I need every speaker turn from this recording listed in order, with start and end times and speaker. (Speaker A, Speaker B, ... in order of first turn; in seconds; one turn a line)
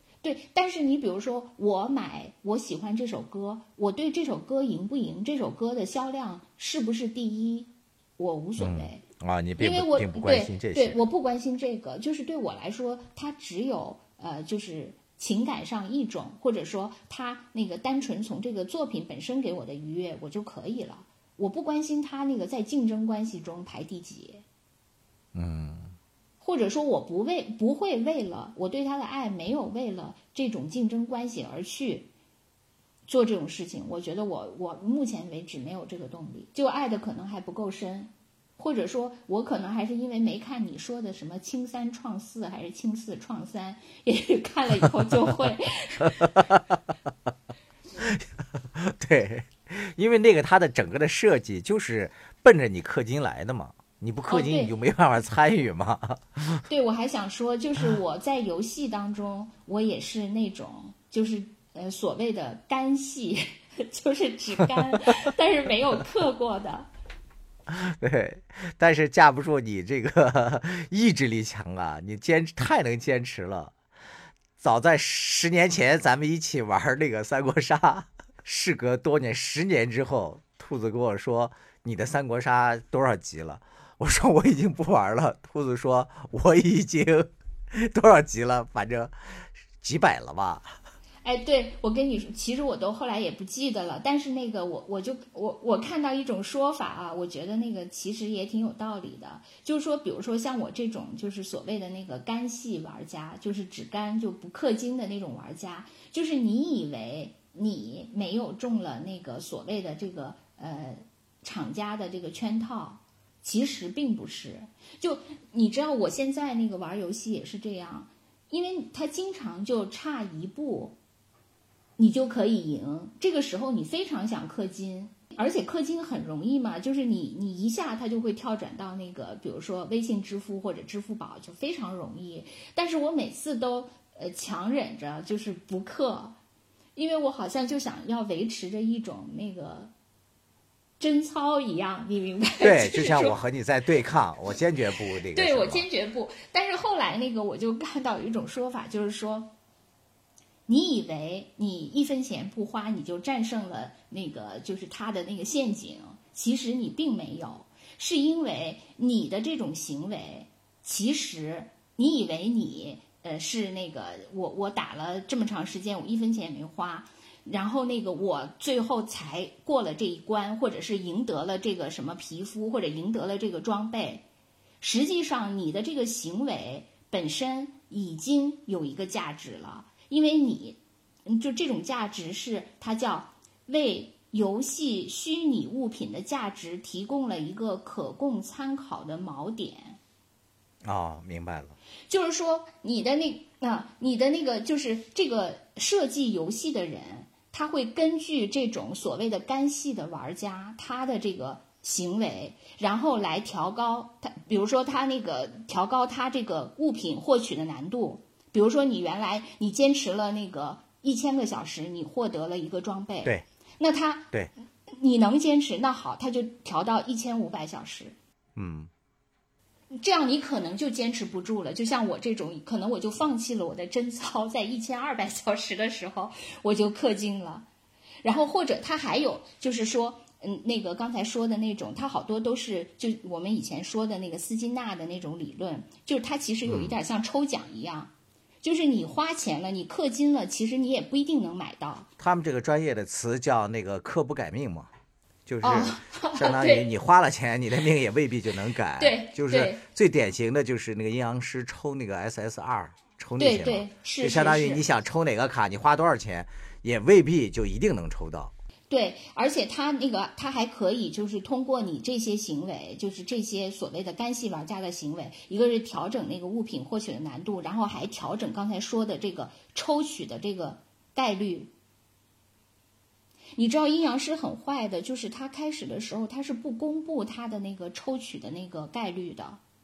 Speaker A: 0.2-9.0
Speaker B: 8.6-11.0
Speaker A: 9.6-24.4
Speaker B: 25.3-25.9
Speaker A: 26.4-32.1
Speaker A: 33.0-46.3
Speaker B: 46.2-46.8
Speaker B: 48.0-56.6
Speaker A: 54.3-54.7
Speaker A: 56.7-66.9
Speaker B: 67.7-73.7
Speaker B: 74.6-89.1
Speaker B: 89.8-90.7
Speaker A: 91.2-121.0
Speaker A: 122.0-136.3
Speaker A: 136.9-139.9
Speaker A: 141.0-143.4
Speaker B: 142.6-145.8
Speaker A: 145.2-149.5
Speaker A: 150.7-174.2
Speaker A: 174.8-190.0
Speaker B: 190.8-191.8
Speaker A: 192.1-214.3
Speaker A: 214.9-218.2
Speaker B: 218.6-218.9
Speaker A: 219.9-227.7
Speaker A: 228.2-242.1
Speaker B: 236.6-236.9
Speaker B: 242.2-244.9
Speaker B: 245.4-258.5
Speaker A: 245.6-246.9
Speaker A: 249.0-249.8
Speaker A: 253.4-254.8
Speaker A: 258.9-271.7
Speaker A: 273.6-279.6